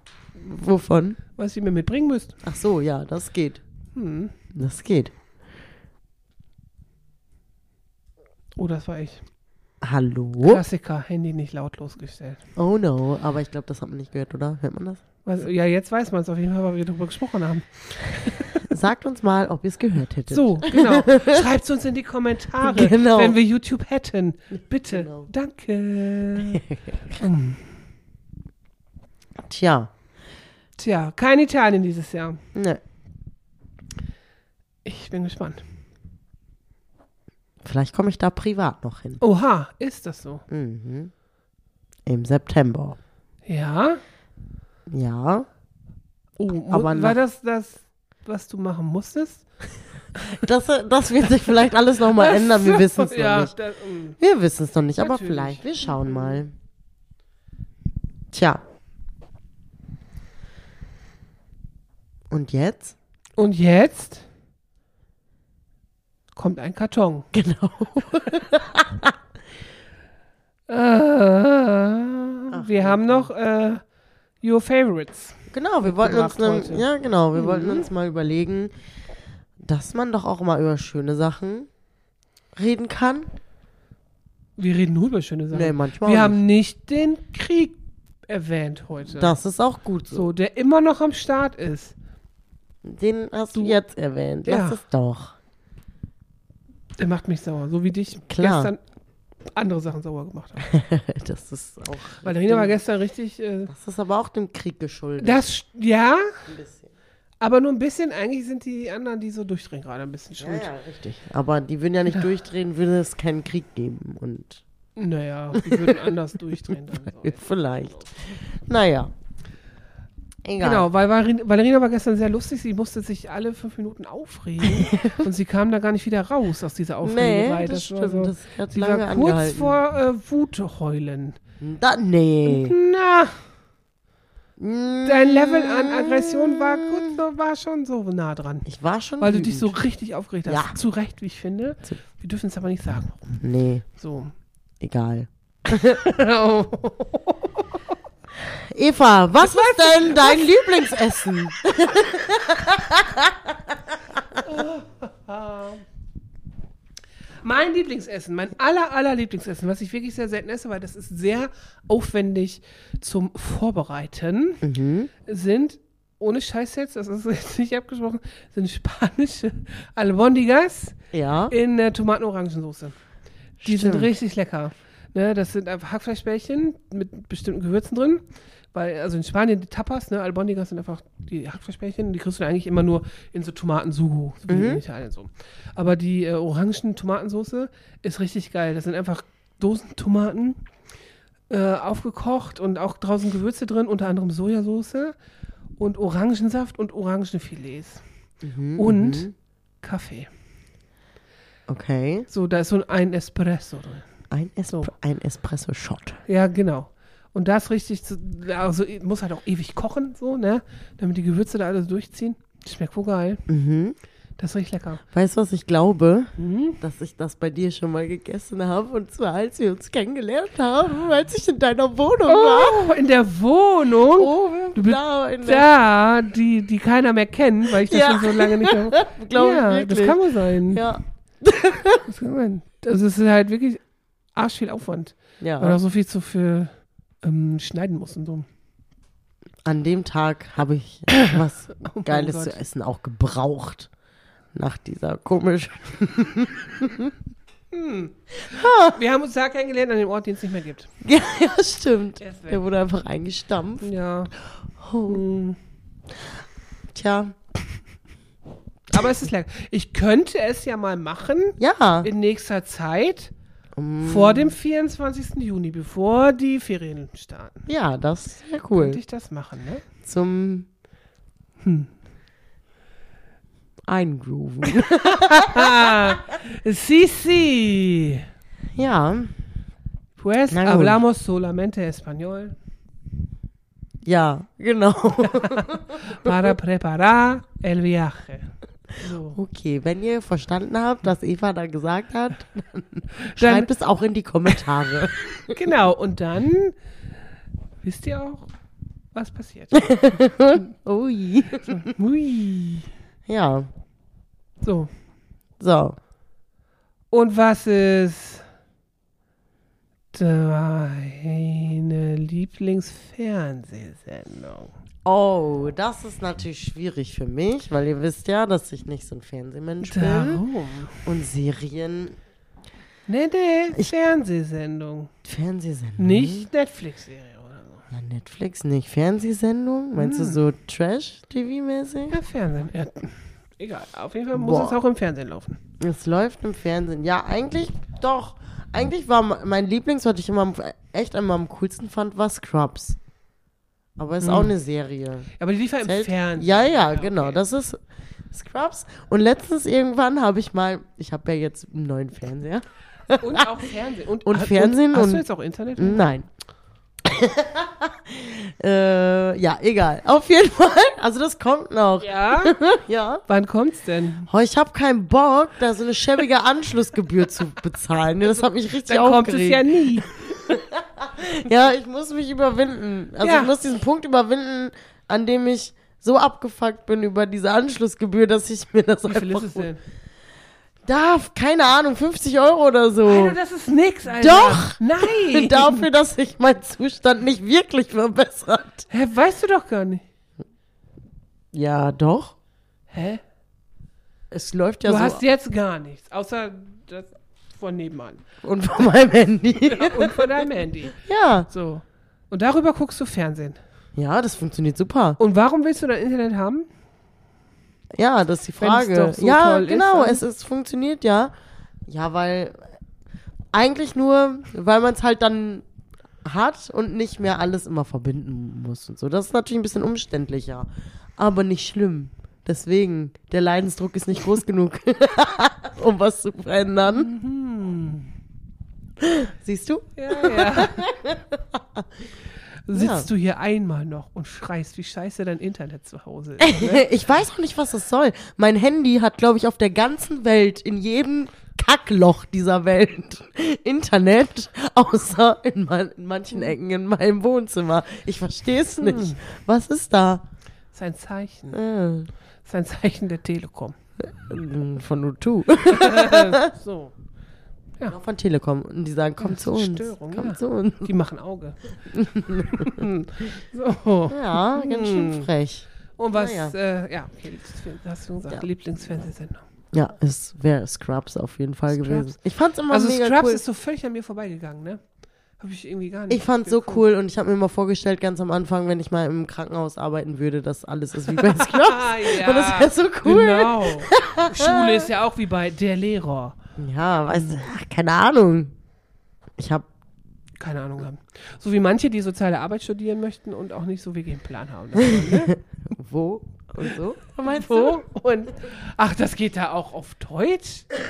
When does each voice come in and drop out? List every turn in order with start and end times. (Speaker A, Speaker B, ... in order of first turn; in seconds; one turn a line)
Speaker A: 0.4-1.2
Speaker B: 1.4-2.4
Speaker A: 2.4-3.6
Speaker B: 4.0-4.3
Speaker A: 4.5-5.1
Speaker B: 8.6-9.2
Speaker A: 9.8-10.6
Speaker B: 10.4-12.4
Speaker A: 12.6-15.0
Speaker B: 15.2-18.6
Speaker A: 18.6-21.5
Speaker B: 20.3-26.6
Speaker A: 22.6-23.4
Speaker A: 24.9-25.3
Speaker A: 26.5-27.2
Speaker B: 27.2-27.6
Speaker A: 29.4-29.9
Speaker B: 30.8-32.4
Speaker A: 32.5-32.8
Speaker B: 34.9-35.6
Speaker A: 37.6-39.2
Speaker B: 39.2-40.4
Speaker A: 40.5-41.1
Speaker A: 42.1-43.0
Speaker B: 43.5-44.0
Speaker A: 44.9-45.5
Speaker B: 46.4-49.5
Speaker A: 46.5-47.2
Speaker A: 50.3-53.5
Speaker B: 52.1-54.2
Speaker A: 54.2-56.5
Speaker B: 55.0-56.4
Speaker A: 58.3-58.6
Speaker A: 62.3-63.0
Speaker B: 63.4-64.3
Speaker B: 66.3-67.3
Speaker A: 67.3-69.2
Speaker B: 70.7-73.8
Speaker A: 72.5-73.3
Speaker B: 74.4-77.8
Speaker A: 75.5-78.7
Speaker A: 79.6-81.7
Speaker A: 82.5-83.3
Speaker B: 84.6-89.3
Speaker A: 85.5-86.4
Speaker A: 89.2-90.3
Speaker B: 90.1-92.0
Speaker A: 92.8-95.4
Speaker B: 94.5-94.8
Speaker B: 97.0-98.8
Speaker A: 98.3-98.7
Speaker B: 99.5-100.7
Speaker A: 100.7-102.8
Speaker B: 102.2-103.7
Speaker A: 103.7-105.5
Speaker B: 105.2-106.4
Speaker A: 106.5-106.9
Speaker B: 107.4-110.7
Speaker A: 110.4-114.6
Speaker B: 115.0-117.4
Speaker A: 115.5-116.0
Speaker A: 117.1-119.1
Speaker A: 120.4-120.9
Speaker B: 120.6-131.4
Speaker A: 124.6-125.2
Speaker A: 127.0-129.8
Speaker A: 131.6-132.8
Speaker B: 132.5-133.4
Speaker A: 134.6-137.2
Speaker B: 135.1-138.7
Speaker A: 138.7-139.8
Speaker B: 139.2-143.2
Speaker A: 140.5-140.8
Speaker A: 143.3-143.8
Speaker B: 144.0-144.3
Speaker A: 144.8-146.0
Speaker B: 145.7-147.7
Speaker A: 148.5-153.8
Speaker B: 149.4-150.7
Speaker B: 154.4-155.8
Speaker B: 157.4-164.6
Speaker A: 164.6-165.1
Speaker B: 165.2-171.0
Speaker A: 171.1-171.5
Speaker B: 171.5-173.0
Speaker A: 173.6-174.1
Speaker B: 173.6-190.6
Speaker A: 184.5-184.8
Speaker B: 191.5-195.2
Speaker B: 195.8-198.0
Speaker A: 198.4-199.3
Speaker B: 198.8-199.3
Speaker B: 199.8-200.3
Speaker A: 201.7-202.3
Speaker B: 202.3-204.1
Speaker A: 204.3-206.2
Speaker B: 206.3-213.4
Speaker A: 213.5-214.0
Speaker B: 214.4-215.0
Speaker A: 215.1-222.8
Speaker B: 216.4-216.8
Speaker B: 222.3-230.9
Speaker A: 224.2-225.7
Speaker A: 227.7-232.0
Speaker B: 232.0-233.8
Speaker B: 234.3-238.5
Speaker A: 235.4-235.8
Speaker A: 239.7-243.9
Speaker B: 241.2-242.6
Speaker A: 244.5-247.1
Speaker B: 247.7-250.9
Speaker A: 248.4-249.0
Speaker A: 251.0-253.9
Speaker B: 252.2-252.6
Speaker B: 253.8-254.3
Speaker A: 254.8-255.2
Speaker B: 255.1-255.6
Speaker A: 256.9-257.4
Speaker B: 258.9-263.3
Speaker A: 261.6-262.1
Speaker A: 263.8-264.6
Speaker B: 264.0-267.6
Speaker A: 267.7-269.0
Speaker B: 268.7-269.8
Speaker A: 270.0-270.7
Speaker B: 271.6-271.9
Speaker A: 273.9-276.0
Speaker B: 274.8-278.2
Speaker A: 278.8-279.3
Speaker B: 280.2-282.6
Speaker A: 280.5-281.0
Speaker A: 284.0-286.4
Speaker B: 285.2-289.4
Speaker A: 289.3-295.6
Speaker B: 293.2-293.7
Speaker B: 295.4-296.8
Speaker B: 297.8-298.5
Speaker B: 299.1-300.2
Speaker A: 299.7-301.9
Speaker B: 301.7-302.9
Speaker A: 303.3-303.7
Speaker B: 304.6-304.9
Speaker A: 305.6-306.0
Speaker B: 307.1-308.4
Speaker B: 310.1-314.7
Speaker A: 315.1-320.4
Speaker B: 319.8-321.1
Speaker A: 321.1-322.2
Speaker B: 323.1-325.1
Speaker A: 325.2-326.5
Speaker B: 326.0-327.9
Speaker A: 327.9-332.2
Speaker B: 330.0-330.4
Speaker B: 332.1-335.6
Speaker A: 334.3-334.8
Speaker A: 335.8-343.0
Speaker A: 344.0-345.3
Speaker B: 344.2-344.5
Speaker B: 345.4-347.4
Speaker A: 345.8-353.6
Speaker B: 353.2-356.0
Speaker A: 354.2-355.2
Speaker A: 355.8-356.3
Speaker A: 357.0-363.2
Speaker B: 362.0-362.6
Speaker B: 363.3-364.3
Speaker A: 364.3-379.7
Speaker B: 368.9-370.3
Speaker B: 373.2-373.5
Speaker B: 379.1-379.8
Speaker A: 380.9-383.4
Speaker B: 383.1-385.9
Speaker A: 384.1-388.9
Speaker B: 388.9-390.0
Speaker A: 391.5-392.3
Speaker B: 392.9-393.2
Speaker A: 394.3-395.2
Speaker B: 394.8-398.2
Speaker A: 398.4-400.3
Speaker B: 399.7-401.0
Speaker A: 400.9-401.5
Speaker B: 401.5-403.6
Speaker A: 404.0-405.2
Speaker B: 405.2-406.7
Speaker A: 407.9-411.3
Speaker B: 408.6-410.2
Speaker A: 411.9-412.6
Speaker A: 413.5-415.6
Speaker A: 416.2-427.1
Speaker B: 426.9-428.1
Speaker A: 429.0-431.9
Speaker B: 430.0-430.8
Speaker B: 432.7-436.9
Speaker A: 432.7-433.1
Speaker A: 436.4-450.2
Speaker B: 448.8-449.2
Speaker B: 450.7-451.6
Speaker A: 451.5-452.1
Speaker B: 452.4-453.8
Speaker A: 454.0-456.4
Speaker B: 455.7-456.9
Speaker A: 457.9-460.9
Speaker B: 459.2-461.6
Speaker A: 461.9-462.9
Speaker B: 462.5-465.3
Speaker A: 464.1-466.5
Speaker B: 466.0-469.4
Speaker A: 469.7-473.4
Speaker B: 471.7-472.1
Speaker B: 472.7-474.8
Speaker B: 475.4-476.8
Speaker A: 476.1-484.9
Speaker B: 481.1-486.4
Speaker A: 486.6-488.5
Speaker B: 487.1-487.4
Speaker A: 489.4-489.7
Speaker B: 490.4-495.4
Speaker A: 494.8-497.8
Speaker B: 497.2-500.7